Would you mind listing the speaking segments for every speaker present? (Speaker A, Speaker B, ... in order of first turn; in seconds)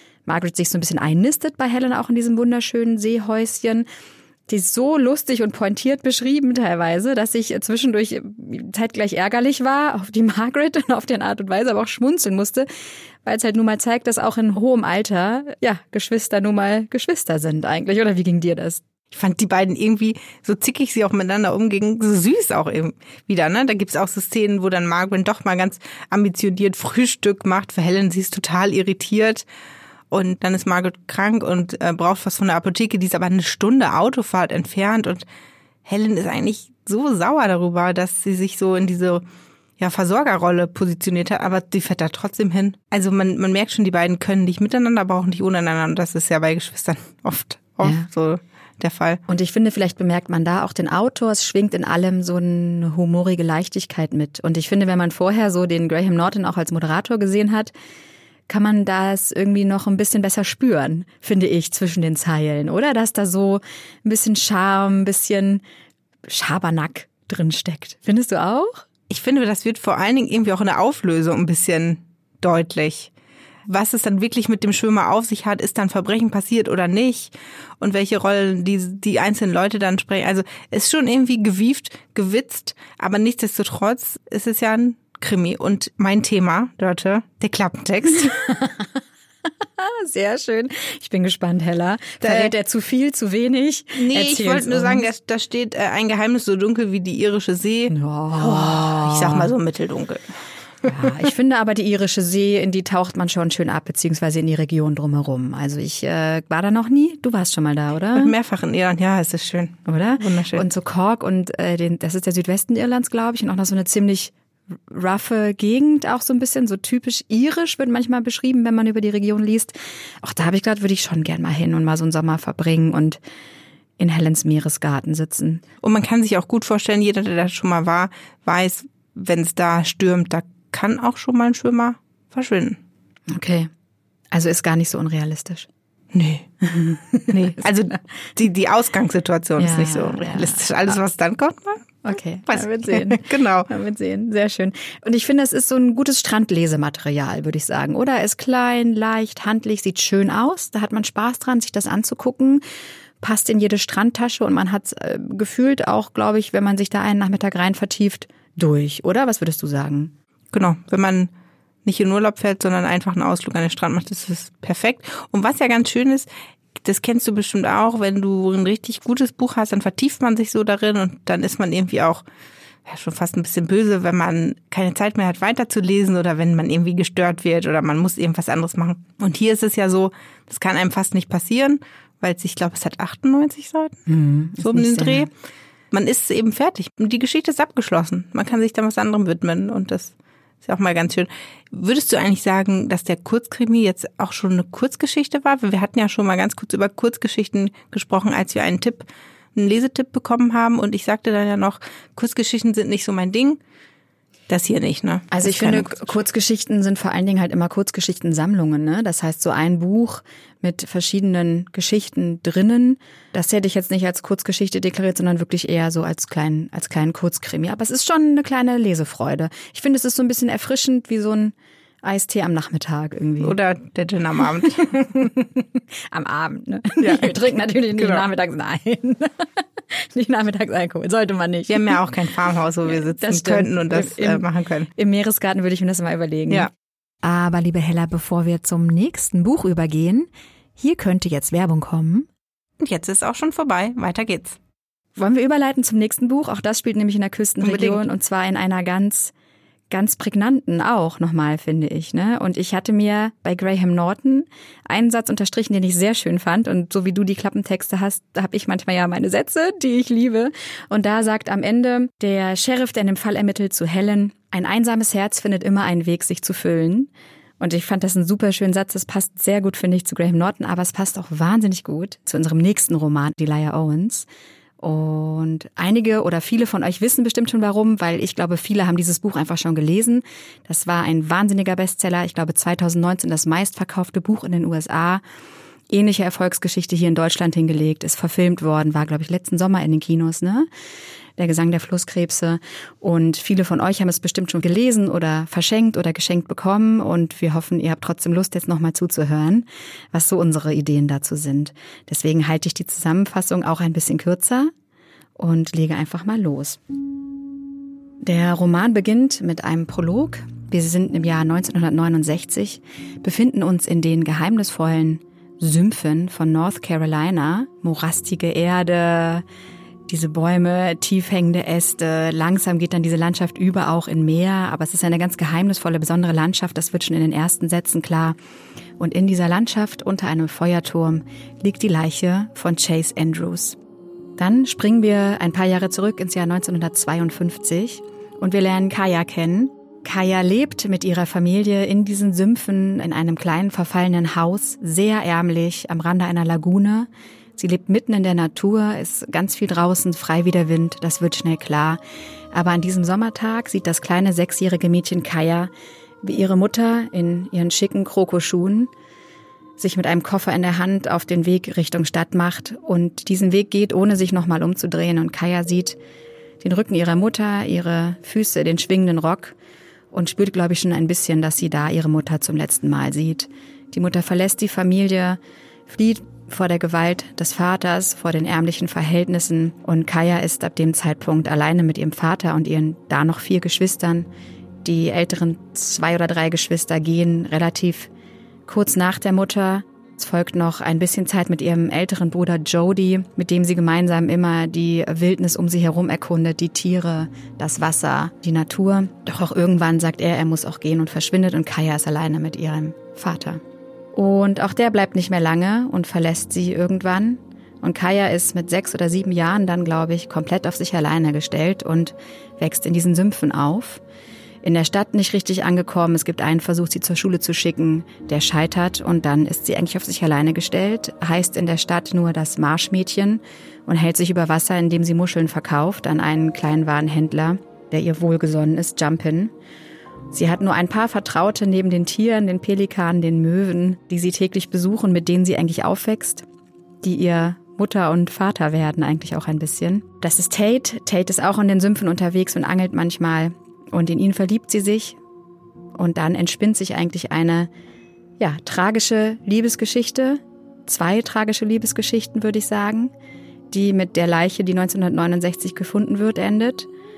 Speaker A: 0.3-3.9, 4.5-12.7, 13.2-18.8, 47.8-48.1, 49.3-57.7, 58.5-65.6, 66.3-68.8, 88.1-89.0, 89.8-95.1, 97.9-99.5, 100.8-108.3, 109.9-114.3, 114.9-123.2, 124.0-125.6, 133.3-133.7, 134.3-135.7, 136.7-137.3, 139.6-140.7, 142.0-152.6, 153.2-160.1, 184.1-185.3, 205.3-223.6, 224.7-232.0, 233.0-236.7, 237.2-242.3, 245.2-249.3, 249.9-274.3, 274.8-285.2, 285.9-290.7, 291.4-304.7, 305.4-306.8, 308.2-319.4, 320.1-328.4, 329.0-333.8, 334.4-352.0, 352.5-355.7, 356.2-358.9, 359.8-366.0, 366.6-369.6, 370.1-384.3, 384.8-388.1, 388.7-403.6, 404.1-414.0, 414.6-429.5, 430.3-436.4, 437.0-445.2, 446.0-447.7, 448.4-453.1, 453.7-456.9
Speaker B: 19.1-29.4, 30.1-35.2, 35.9-39.2, 39.8-49.2, 69.1-73.1, 73.7-88.3, 92.2-92.5, 94.0-100.3, 100.8-101.1, 108.2-110.7, 125.8-132.8, 136.1-136.5, 137.3-141.9, 142.5-143.7, 160.5-161.3, 161.8-172.2, 172.8-184.0, 184.6-185.3, 185.9-203.6, 204.5-206.2, 223.4-224.9, 227.0-228.3, 231.7-234.9, 242.8-244.6, 247.6-248.1